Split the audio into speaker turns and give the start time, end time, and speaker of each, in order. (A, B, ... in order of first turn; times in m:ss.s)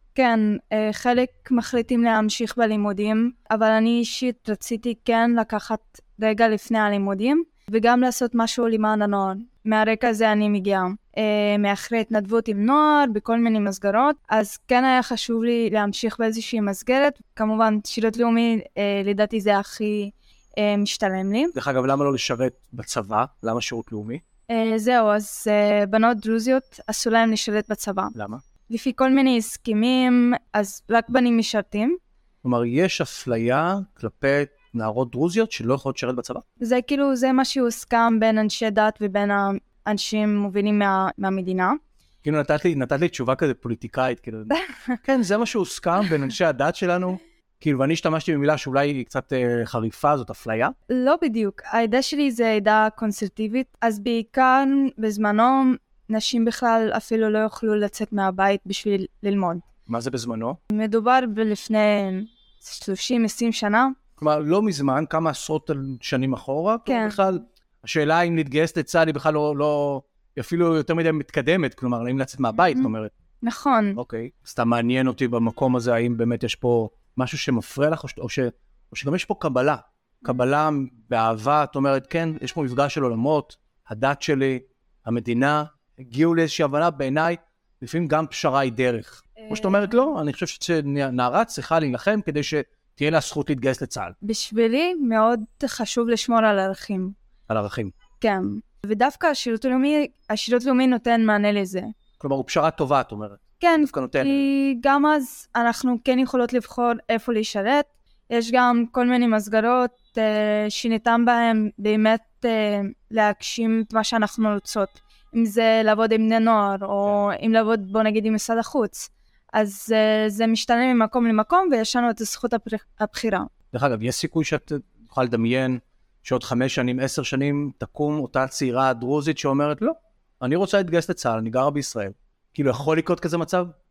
0:00.2-0:21.5 A
0:21.6-0:24.2 B
0:24.5-0:28.1 A
0:28.2-0:28.4 B
0:28.7-0:32.0 A
0:32.4-0:36.4 B
0:36.6-0:41.8 A
0:42.2-0:50.8 B
0:44.5-0:45.0 A
0:50.9-0:59.6 A
0:59.9-1:00.6 B
1:00.7-1:04.0 A
1:04.2-1:13.1 B
1:06.9-1:07.2 A
1:13.4-1:14.0 A
1:14.0-1:34.2 B
1:29.4-1:30.0 A
1:34.2-1:37.2 A
1:37.5-1:38.0 B
1:38.2-1:41.9 A
1:42.2-1:44.5 B
1:43.6-2:03.5 A
2:03.7-2:13.7 B